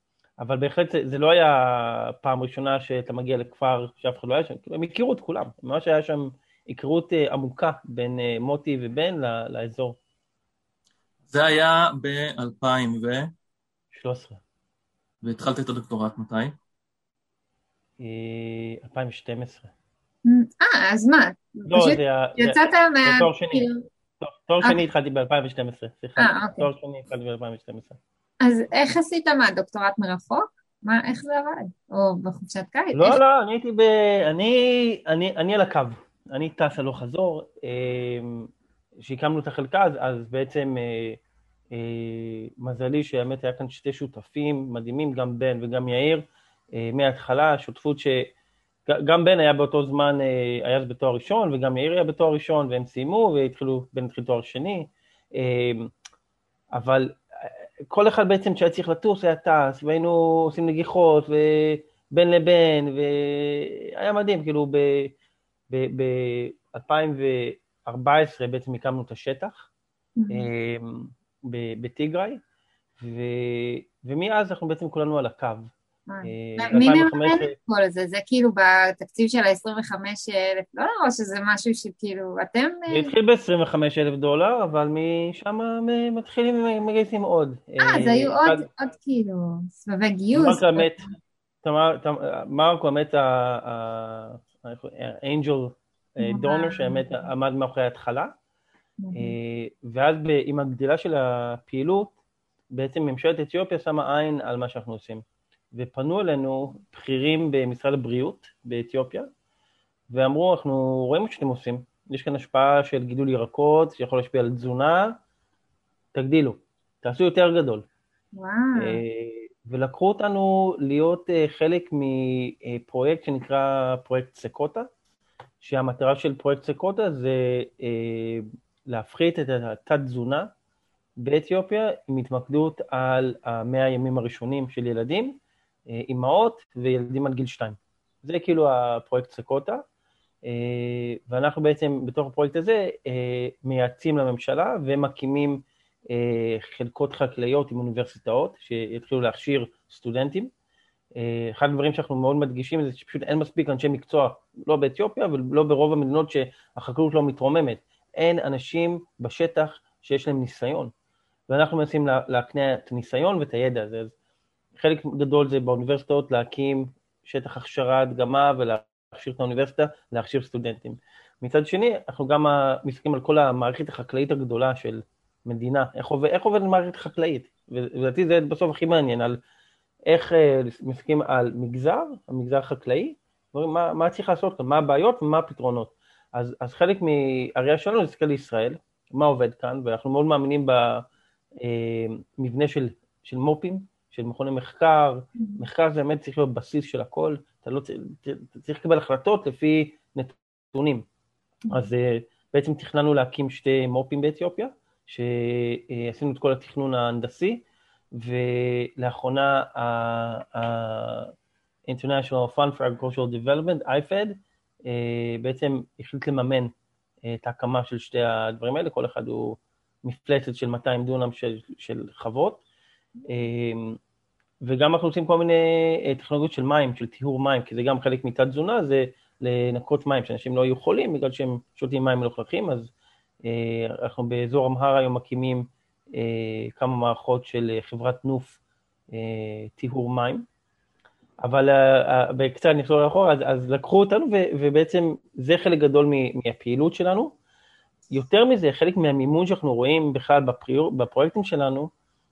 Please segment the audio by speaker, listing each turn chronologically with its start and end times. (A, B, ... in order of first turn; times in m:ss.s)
0:00.4-0:10.0 A
0:11.3-0:13.3 B
0:13.9-0:14.4 A
0:15.2-0:16.6 B
0:18.0-0:19.7 A
0:20.2-0:23.9 C
0:21.7-0:23.7 A
0:24.2-0:28.0 A
0:26.2-0:26.7 C
0:28.4-0:33.2 C
0:32.9-0:38.5 A
0:39.0-0:41.2 A
0:41.7-0:48.3 A
0:48.9-0:55.9 A
0:56.8-1:05.1 A
1:05.7-1:09.7 A
1:10.2-1:10.5 C
1:10.3-1:12.4 A
1:13.0-1:15.7 A
1:16.1-1:23.1 C
1:16.2-1:17.5 A
1:22.9-1:28.6 A
1:27.8-1:31.1 C
1:30.3-1:31.1 A
1:31.6-1:38.3 A
1:36.2-1:37.3 C
1:39.0-1:39.4 C
1:39.1-1:42.2 A
1:42.7-1:45.2 A
1:45.8-1:49.3 A
1:50.1-1:55.2 A
1:56.1-1:57.9 A
1:58.3-1:59.0 C
1:58.8-2:04.9 A
2:05.6-2:10.5 A
2:11.2-2:15.4 A
2:15.9-2:19.8 A
2:20.5-2:30.5 A
2:31.2-2:40.9 A
2:41.5-2:44.1 A
2:44.8-2:59.4 A
3:00.1-3:11.1 A
3:11.6-3:21.0 A
3:21.7-3:27.6 A
3:28.2-3:31.3 A
3:31.9-3:36.7 A
3:37.3-3:42.6 A
3:43.3-3:44.0 A
3:44.6-3:52.9 A
3:53.4-3:58.6 A
3:59.1-4:00.5 A
4:01.4-4:07.3 A
4:08.1-4:11.9 A